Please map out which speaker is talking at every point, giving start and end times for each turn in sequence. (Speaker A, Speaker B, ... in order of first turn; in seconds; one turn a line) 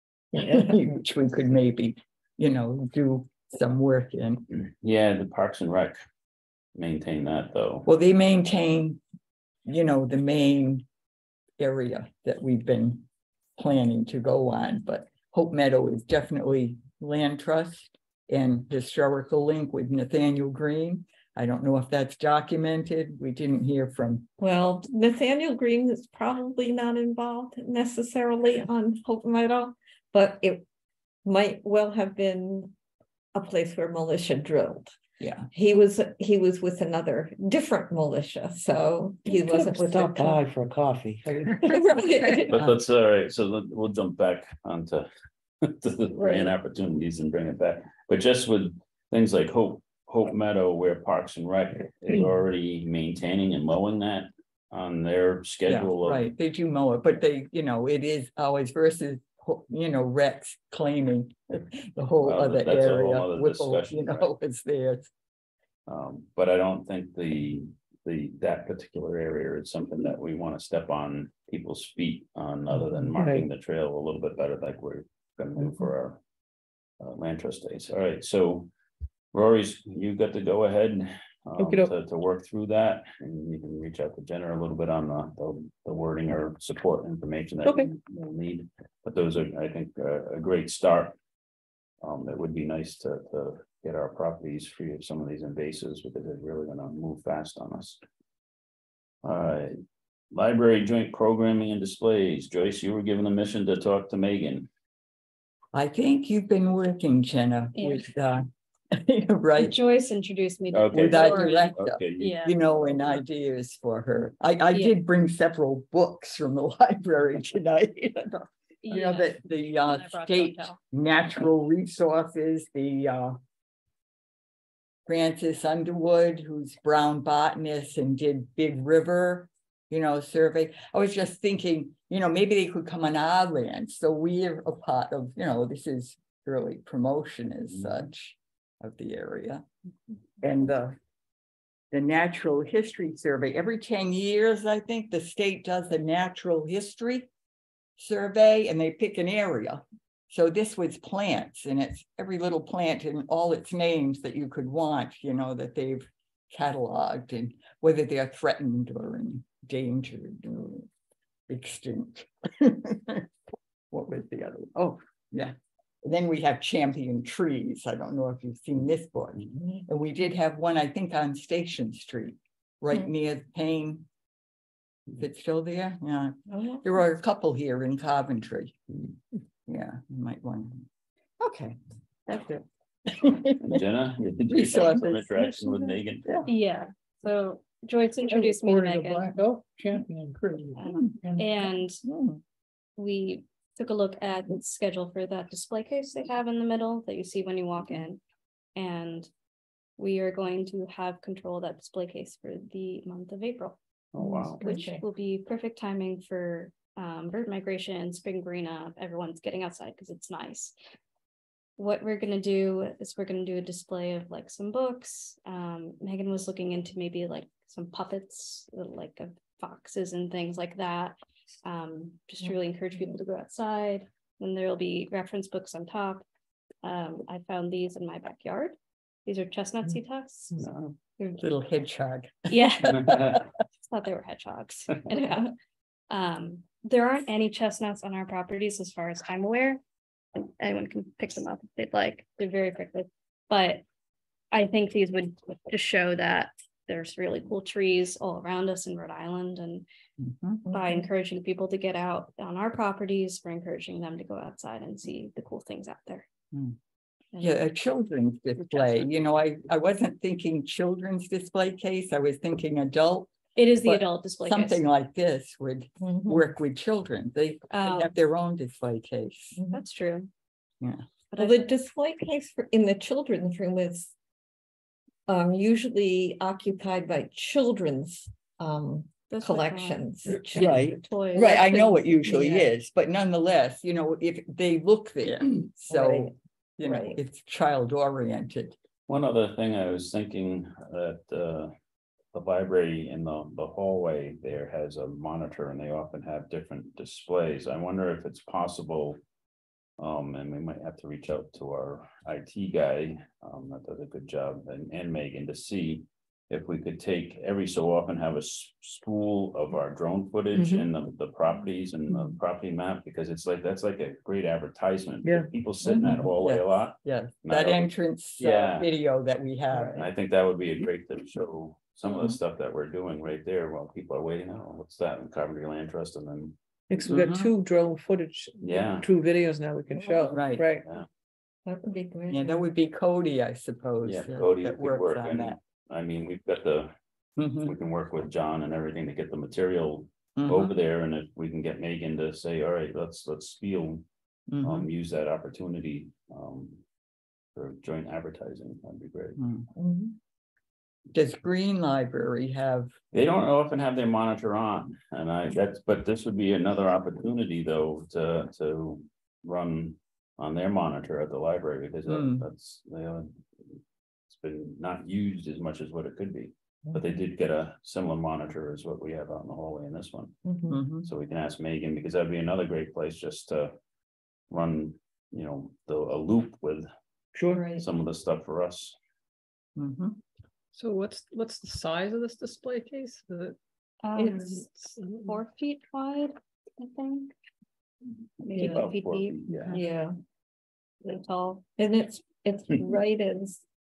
Speaker A: 0.3-4.5
Speaker B: 4.5-6.0
Speaker B: 6.8-7.9
Speaker A: 7.9-9.0
Speaker A: 9.7-10.8
Speaker A: 11.6-13.1
Speaker A: 13.6-24.3
Speaker C: 24.4-30.6
Speaker C: 31.2-32.7
Speaker C: 33.4-34.9
Speaker A: 35.2-35.5
Speaker C: 35.5-40.4
Speaker D: 39.3-41.8
Speaker C: 41.7-42.6
Speaker B: 42.5-45.1
Speaker B: 45.6-56.3
Speaker A: 55.7-65.1
Speaker B: 62.2-64.3
Speaker B: 65.9-76.2
Speaker D: 73.2-73.5
Speaker B: 77.0-78.7
Speaker B: 79.3-91.1
Speaker D: 81.6-81.9
Speaker D: 87.7-87.9
Speaker B: 92.0-98.0
Speaker B: 99.2-99.7
Speaker B: 100.3-104.7
Speaker A: 105.7-109.8
Speaker E: 107.8-108.1
Speaker E: 109.6-112.9
Speaker B: 110.7-112.4
Speaker A: 110.9-123.4
Speaker E: 118.8-120.8
Speaker A: 125.1-139.6
Speaker A: 140.4-141.0
Speaker A: 141.9-147.3
Speaker A: 148.0-160.9
Speaker A: 161.5-163.2
Speaker A: 163.9-174.1
Speaker A: 175.2-178.8
Speaker C: 176.5-177.1
Speaker A: 179.7-180.8
Speaker A: 181.4-181.8
Speaker A: 182.3-183.8
Speaker B: 183.6-186.3
Speaker A: 184.5-185.2
Speaker E: 186.5-189.3
Speaker F: 188.3-191.5
Speaker E: 190.8-192.0
Speaker A: 192.0-192.4
Speaker E: 193.0-198.2
Speaker E: 198.8-199.3
Speaker E: 200.0-203.8
Speaker B: 204.1-204.6
Speaker C: 204.2-205.0
Speaker E: 204.6-210.7
Speaker E: 211.8-226.2
Speaker E: 226.8-230.6
Speaker B: 230.6-230.9
Speaker A: 231.4-233.5
Speaker E: 232.5-233.2
Speaker B: 232.9-233.4
Speaker E: 233.9-235.5
Speaker E: 236.1-239.8
Speaker E: 240.4-243.8
Speaker E: 244.5-249.9
Speaker A: 250.2-250.7
Speaker E: 250.7-256.2
Speaker A: 257.4-263.3
Speaker E: 263.6-264.8
Speaker A: 263.8-269.6
Speaker C: 266.0-266.4
Speaker E: 267.7-268.1
Speaker E: 269.7-270.3
Speaker E: 271.3-271.8
Speaker C: 271.4-274.1
Speaker C: 275.3-282.7
Speaker E: 279.3-282.6
Speaker A: 280.5-288.8
Speaker C: 285.9-287.2
Speaker B: 289.1-291.7
Speaker B: 292.3-299.2
Speaker B: 300.0-318.9
Speaker D: 310.6-310.9
Speaker D: 312.1-312.4
Speaker D: 315.2-315.5
Speaker A: 315.9-319.9
Speaker B: 320.0-326.6
Speaker A: 322.1-322.4
Speaker D: 326.9-330.9
Speaker A: 327.1-327.5
Speaker B: 328.6-329.1
Speaker A: 330.0-330.7
Speaker C: 331.7-332.7
Speaker A: 332.3-335.6
Speaker B: 334.0-336.9
Speaker A: 337.4-337.7
Speaker B: 337.6-344.0
Speaker A: 340.4-340.8
Speaker A: 344.5-344.9
Speaker B: 344.6-346.8
Speaker B: 347.6-349.4
Speaker A: 349.4-350.1
Speaker A: 351.1-352.9
Speaker B: 353.1-363.3
Speaker A: 362.1-362.4
Speaker B: 364.3-370.4
Speaker C: 370.4-370.8
Speaker A: 370.7-371.1
Speaker B: 371.0-373.7
Speaker B: 374.5-376.9
Speaker D: 377.4-377.6
Speaker C: 377.5-377.9
Speaker B: 377.8-379.0
Speaker A: 379.8-380.2
Speaker G: 380.8-383.6
Speaker E: 384.0-387.3
Speaker G: 384.2-385.4
Speaker E: 388.4-389.7
Speaker B: 388.5-389.8
Speaker G: 389.5-389.8
Speaker C: 389.7-390.2
Speaker E: 391.0-391.6
Speaker C: 391.8-393.6